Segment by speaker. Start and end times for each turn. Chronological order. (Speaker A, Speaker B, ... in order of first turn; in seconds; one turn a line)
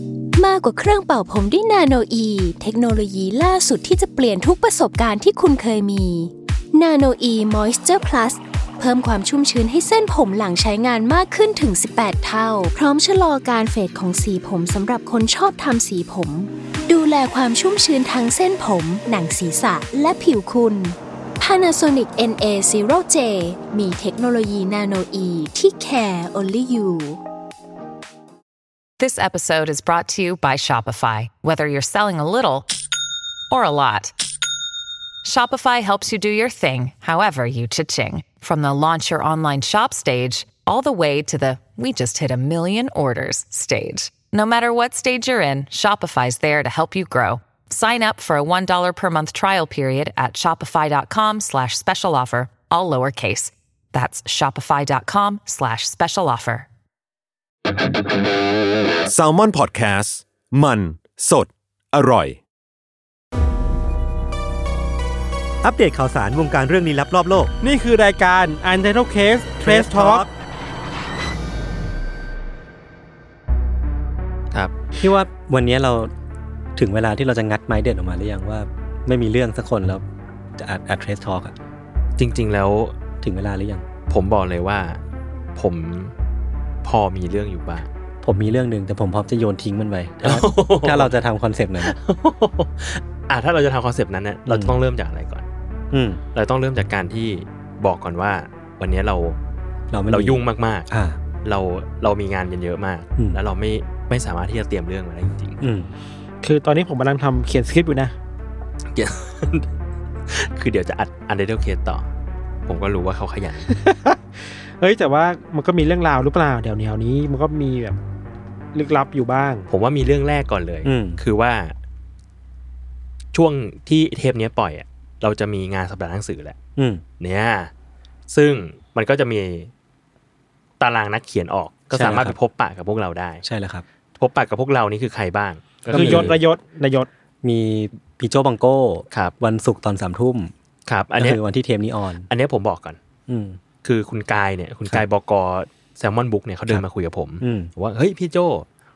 Speaker A: 0.4-27.2
Speaker B: 29.0-32.7
Speaker B: 33.5-34.1
Speaker B: 35.2-56.7
Speaker C: 59.1-62.4
Speaker D: 65.6-67.5
Speaker E: 67.6-70.3
Speaker D: 69.6-70.3
Speaker D: 75.0-76.1
Speaker D: 76.8-80.0
Speaker D: 80.6-81.5
Speaker F: 82.2-82.9
Speaker D: 83.2-83.9
Speaker F: 84.1-85.0
Speaker F: 85.6-86.1
Speaker F: 86.8-87.9
Speaker D: 88.2-92.0
Speaker F: 90.2-91.1
Speaker F: 91.8-95.5
Speaker D: 94.5-94.8
Speaker D: 95.9-96.2
Speaker F: 96.3-99.4
Speaker D: 99.9-101.2
Speaker F: 100.1-100.9
Speaker F: 101.4-105.6
Speaker D: 105.6-105.9
Speaker E: 106.4-108.2
Speaker F: 108.9-109.7
Speaker F: 110.3-112.1
Speaker F: 112.7-113.7
Speaker E: 113.7-114.2
Speaker E: 114.8-118.0
Speaker E: 118.7-119.7
Speaker F: 119.7-121.7
Speaker D: 120.8-121.2
Speaker F: 123.3-126.6
Speaker D: 126.8-127.0
Speaker F: 127.2-127.7
Speaker F: 128.3-129.7
Speaker F: 130.8-133.4
Speaker D: 131.9-132.4
Speaker D: 133.4-133.8
Speaker F: 134.2-136.3
Speaker D: 135.9-136.4
Speaker E: 135.9-137.1
Speaker D: 137.4-140.5
Speaker F: 140.9-141.4
Speaker D: 141.2-142.3
Speaker F: 142.3-143.0
Speaker D: 143.3-143.6
Speaker F: 143.8-148.7
Speaker D: 147.4-147.7